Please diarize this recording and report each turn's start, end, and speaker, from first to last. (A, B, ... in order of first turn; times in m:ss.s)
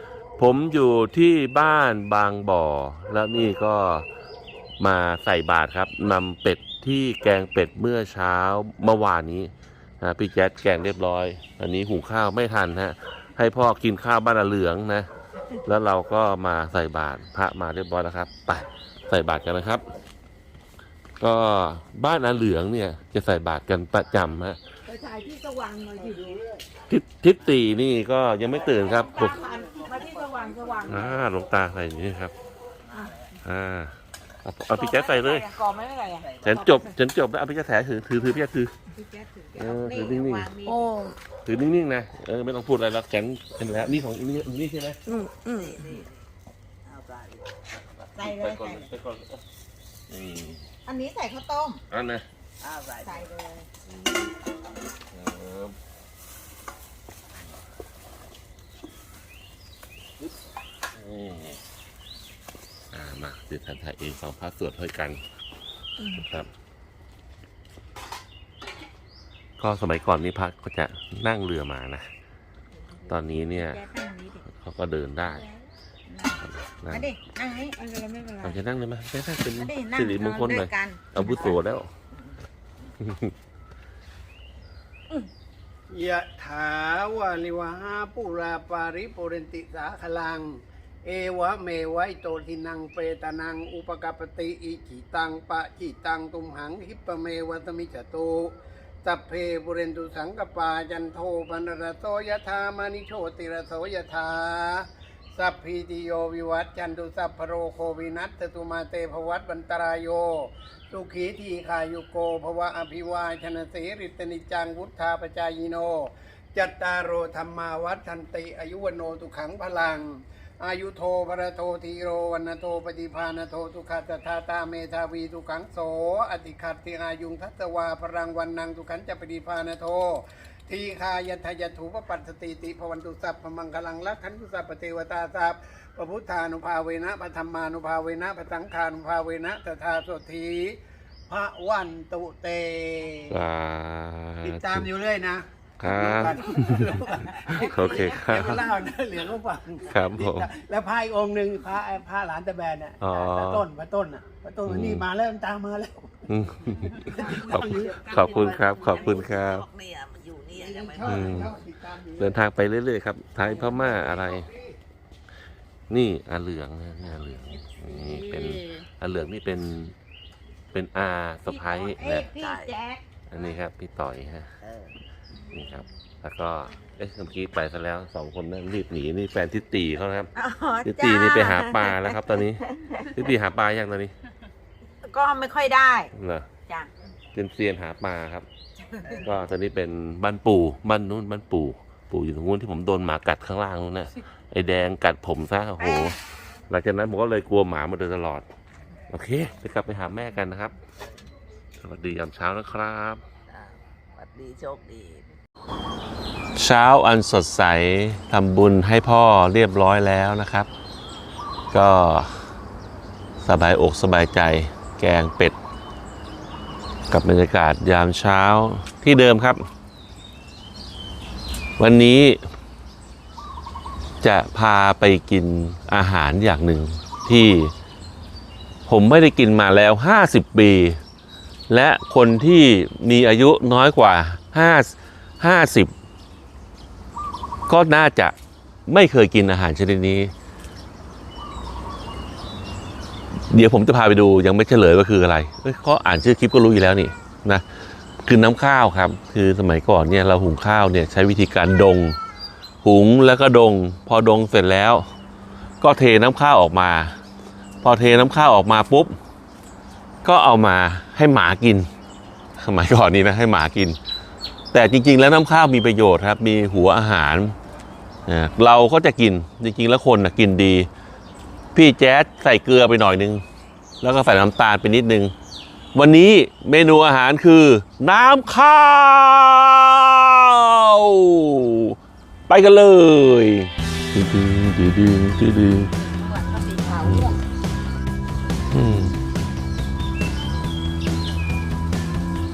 0:00.4-0:04.1 A
0:04.8-0:15.1 A
0:15.6-0:19.8 A
0:21.2-0:24.6 A
0:24.9-0:26.4 B
0:26.9-0:29.4 A
0:29.0-0:31.1 B
0:30.8-0:32.3 A
0:33.4-0:35.5 A
0:34.7-0:36.9 B
0:36.2-0:36.6 C
0:36.4-0:38.7 A
0:38.9-0:40.9 C
0:39.6-0:40.5 A
0:40.6-0:41.1 B
0:41.4-0:45.0 A
0:45.0-0:45.8 B
0:45.5-0:46.2 C
0:46.8-0:47.4 C
0:48.1-0:48.9 C
0:48.2-0:49.4 A
0:50.1-0:50.6 A
0:50.8-0:51.8 C
0:51.9-0:52.2 A
0:52.7-0:53.7 C
0:55.1-0:55.7 A
1:01.0-1:01.6 A
1:02.9-1:05.2 A
1:06.0-1:06.2 B
1:06.1-1:06.5 A
1:09.6-1:12.1 A
1:13.1-1:14.4 C
1:13.1-1:13.8 A
1:14.5-1:15.5 A
1:16.0-1:17.8 C
1:16.4-1:17.1 A
1:17.7-1:18.6 B
1:18.4-1:21.9 A
1:19.5-1:21.6 C
1:23.0-1:23.3 A
1:25.9-2:23.4 D
2:23.3-2:24.9 A
2:24.4-2:39.1 D
2:25.8-2:28.6 A
2:27.4-2:28.6 C
2:29.8-2:30.5 A
2:33.0-2:33.6 A
2:34.6-2:35.0 A
2:36.3-2:39.6 A
2:37.0-2:41.4 C
2:40.5-2:42.3 D
2:41.0-2:41.5 A
2:42.2-2:44.5 A
2:43.6-2:44.4 D
2:45.9-2:49.9 A
2:48.0-2:48.8 C
2:50.7-2:52.3 A
2:51.5-2:53.0 C
2:53.3-2:54.5 A
2:54.6-2:54.9 C
2:55.5-3:00.3 A
3:00.4-3:03.1 C
3:00.8-3:04.1 A
3:05.0-3:06.1 C
3:06.1-3:06.5 A
3:07.3-3:08.5 A
3:08.8-3:09.2 C
3:09.1-3:16.2 A
3:15.8-3:16.1 C
3:16.7-3:18.4 A
3:19.1-3:20.8 A
3:21.8-3:23.2 A
3:23.5-3:25.2 C
3:26.5-3:30.7 A
3:31.7-3:32.3 A
3:33.4-3:35.6 A
3:37.1-3:39.6 A
3:41.8-3:42.4 A
3:44.2-3:47.7 A
3:48.9-3:51.0 A
3:51.7-3:55.9 A
3:57.7-3:58.3 A
3:58.9-4:00.3 A
4:03.5-4:07.6 A
4:08.2-4:12.2 A
4:12.8-4:15.0 A
4:15.8-4:17.1 A
4:17.8-4:19.2 A
4:20.2-4:21.9 A
4:22.6-4:24.0 A
4:24.7-4:27.5 A
4:28.2-4:30.9 A
4:31.7-4:33.4 A
4:34.0-4:35.3 A
4:35.9-4:42.0 A
4:42.5-4:45.9 A
4:46.0-4:47.3 C
4:47.0-4:47.3 A
4:48.7-4:49.1 A